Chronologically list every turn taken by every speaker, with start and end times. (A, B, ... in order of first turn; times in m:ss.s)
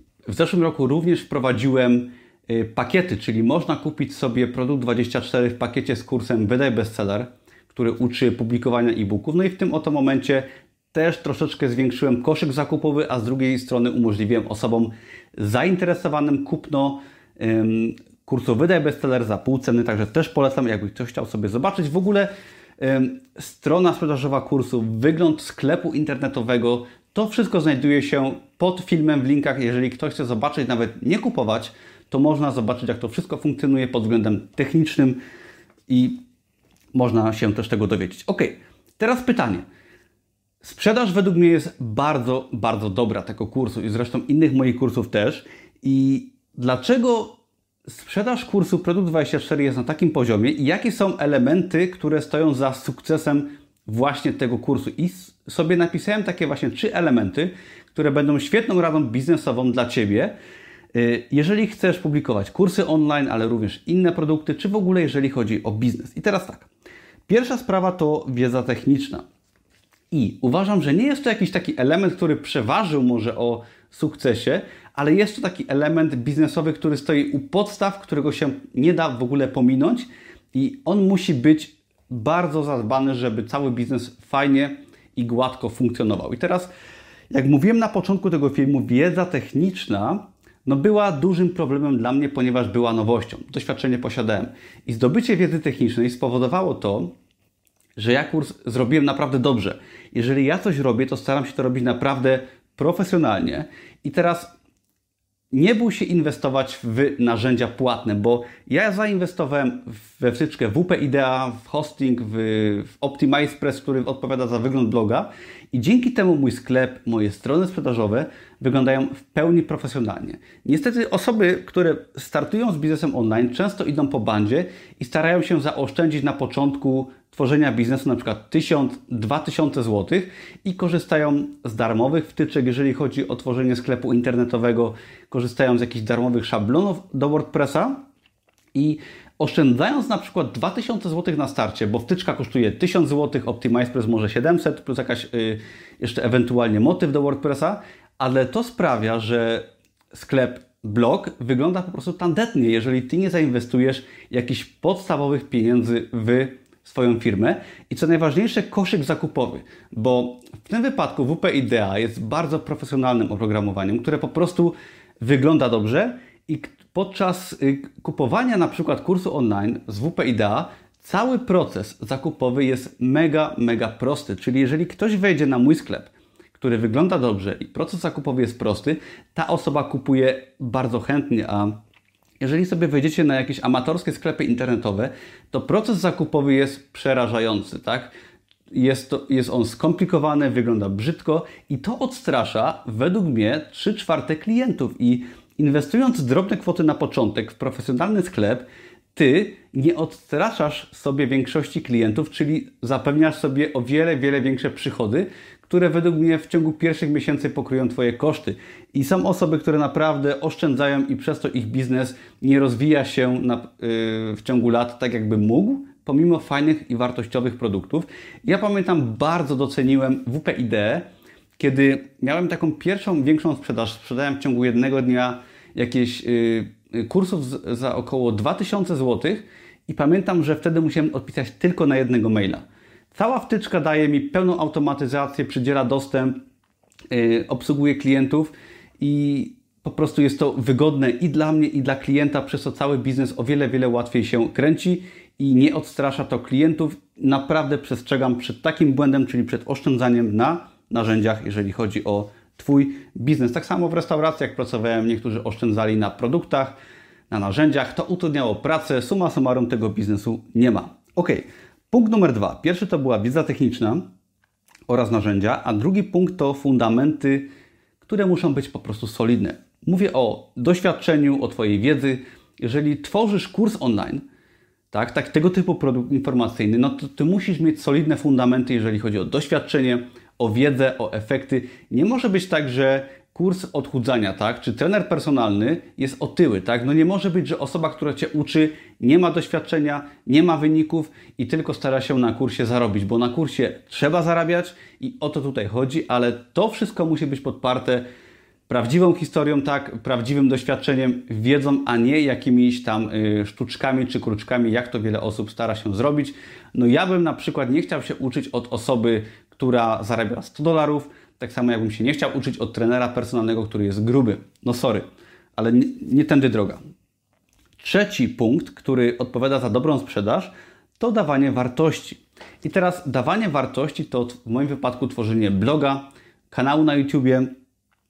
0:00.3-0:35.2 A
0:35.9-0:36.2 A
0:36.9-0:39.6 A
0:40.6-1:00.3 A
1:00.9-1:06.7 A
1:07.3-1:09.2 A
1:10.1-1:26.7 A
1:27.3-1:37.1 A
1:38.0-1:44.5 A
1:45.5-2:18.0 A
2:18.7-3:01.8 A
3:02.4-3:08.1 A
3:08.7-3:41.1 A
3:41.6-3:56.4 A
3:57.1-4:16.8 A
4:17.3-4:24.1 A
4:24.9-4:34.2 A
4:34.9-4:58.1 A
4:58.7-5:15.0 A
5:15.6-5:16.8 A
5:17.8-5:27.5 A